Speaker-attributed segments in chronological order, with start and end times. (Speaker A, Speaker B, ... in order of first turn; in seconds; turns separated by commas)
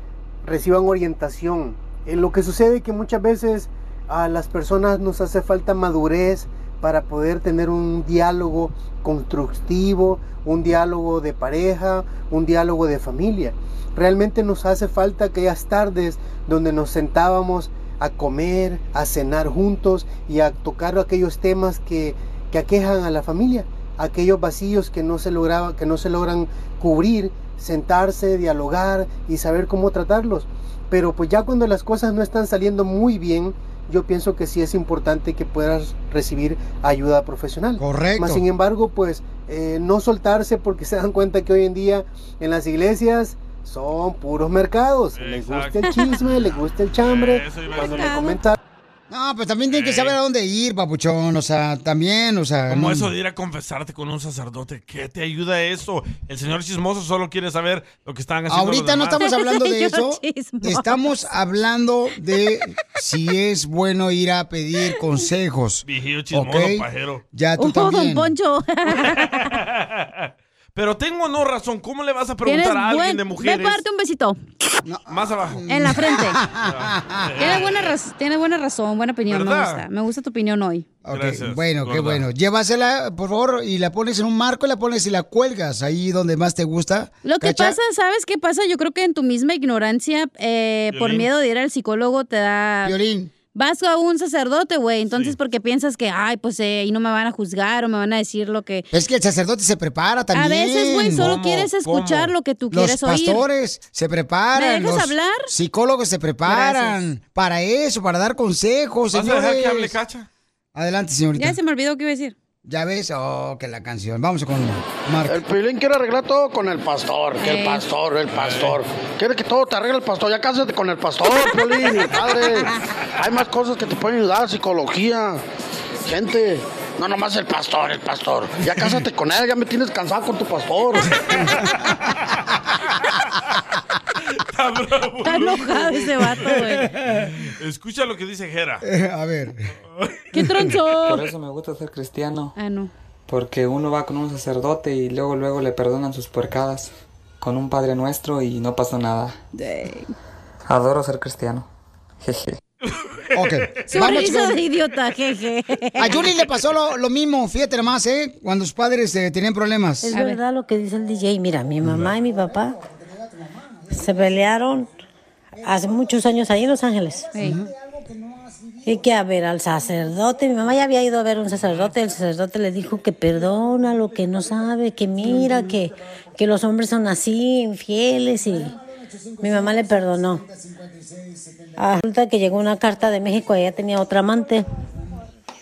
Speaker A: 0.4-48.6, Speaker B: 37.8-38.4, Speaker C: 45.2-48.3, Speaker D: 47.8-48.4, Speaker B: 49.1-53.1, Speaker C: 49.7-50.2, Speaker C: 52.7-59.2, Speaker B: 58.5-68.3, Speaker D: 59.2-61.3, Speaker C: 65.8-67.2, Speaker D: 67.6-69.5, Speaker C: 69.0-73.8, Speaker D: 72.5-74.4, Speaker B: 74.8-77.6, Speaker C: 75.1-75.6, Speaker D: 75.7-76.4, Speaker C: 76.7-77.9, Speaker D: 77.4-80.9, Speaker C: 79.3-79.8, Speaker B: 81.0-87.8, Speaker C: 81.1-82.2, Speaker D: 87.2-93.0, Speaker C: 90.9-91.3, Speaker B: 92.8-93.3, Speaker D: 93.5-98.9, Speaker B: 98.9-109.9, Speaker D: 100.3-103.4, Speaker D: 104.5-105.5, Speaker D: 106.5-107.0, Speaker C: 109.1-110.3, Speaker B: 110.8-111.6, Speaker D: 111.4-112.3, Speaker B: 112.7-115.4, Speaker E: 115.2-125.4, Speaker D: 117.4-117.8, Speaker C: 118.3-118.8, Speaker E: 126.1-131.1, Speaker C: 134.3-136.5, Speaker D: 135.2-136.9, Speaker C: 137.0-138.8, Speaker B: 138.8-139.7, Speaker D: 140.3-141.3, Speaker F: 141.0-142.5, Speaker D: 142.6-142.9, Speaker F: 143.3-149.3, Speaker D: 149.6-150.1, Speaker F: 150.7-151.7, Speaker F: 152.2-152.6, Speaker C: 152.9-154.3, Speaker B: 153.3-154.6, Speaker D: 153.9-156.2, Speaker B: 156.0-160.1, Speaker G: 160.0-162.8, Speaker D: 160.1-160.4, Speaker B: 162.8-163.9, Speaker G: 163.9-165.0, Speaker G: 165.6-167.7, Speaker B: 167.4-169.0, Speaker G: 168.8-178.8, Speaker B: 178.9-181.8, Speaker G: 179.4-180.4, Speaker G: 181.8-184.7